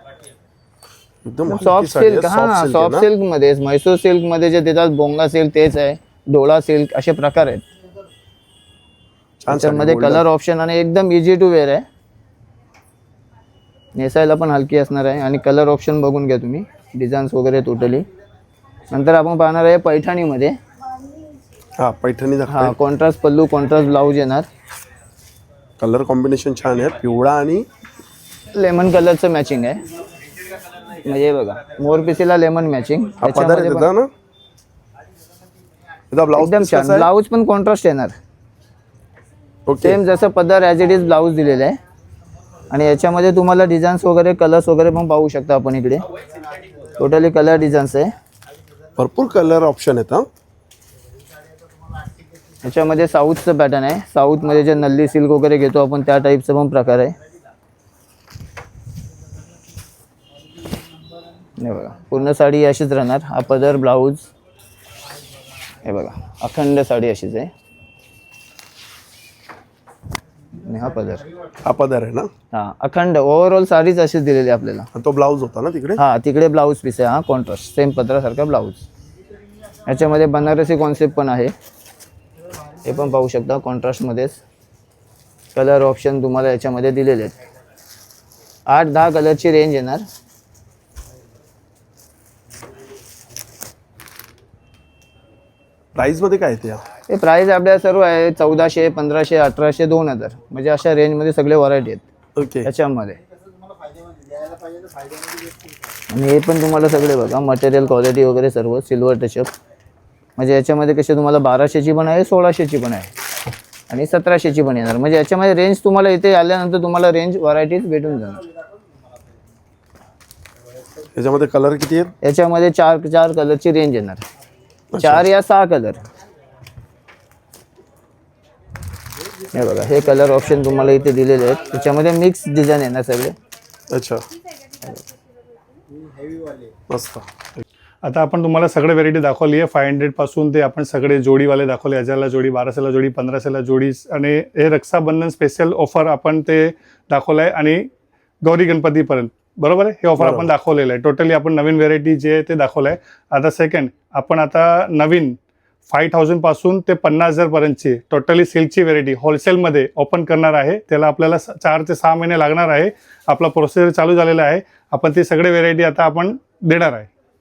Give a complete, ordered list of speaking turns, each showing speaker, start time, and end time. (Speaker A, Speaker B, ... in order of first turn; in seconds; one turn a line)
Speaker A: 1.2-3.1
Speaker B: 1.5-7.6
Speaker A: 9.4-10.3
Speaker B: 9.5-11.8
Speaker B: 13.9-18.1
Speaker B: 18.9-20.6
Speaker A: 21.8-22.8
Speaker B: 22.5-24.5
Speaker A: 25.8-27.7
Speaker B: 28.5-29.8
Speaker B: 31.0-33.9
Speaker A: 33.2-34.1
Speaker A: 36.1-37.1
Speaker B: 36.4-38.2
Speaker A: 39.7-40.0
Speaker B: 39.8-41.8
Speaker B: 42.7-46.1
Speaker B: 47.0-48.1
Speaker A: 49.0-50.3
Speaker B: 52.6-57.2
Speaker B: 61.6-64.3
Speaker B: 65.8-67.5
Speaker B: 70.6-71.2
Speaker A: 71.6-72.3
Speaker B: 72.5-74.9
Speaker A: 74.9-76.0
Speaker B: 76.0-78.8
Speaker B: 79.9-81.5
Speaker B: 82.8-84.4
Speaker B: 85.5-87.3
Speaker B: 88.7-90.0
Speaker A: 96.0-96.8
Speaker B: 97.1-102.0
Speaker A: 102.3-102.7
Speaker B: 102.7-103.2
Speaker B: 106.1-109.5
Speaker B: 110.4-113.1
Speaker B: 113.9-118.4
Speaker A: 121.2-122.1
Speaker B: 122.2-124.2
Speaker A: 124.9-125.3
Speaker B: 125.0-126.0
Speaker B: 129.5-133.4
Speaker A: 133.9-134.2
Speaker A: 136.9-137.6
Speaker C: 138.0-147.9
Speaker C: 148.4-167.1
Speaker A: 150.2-150.5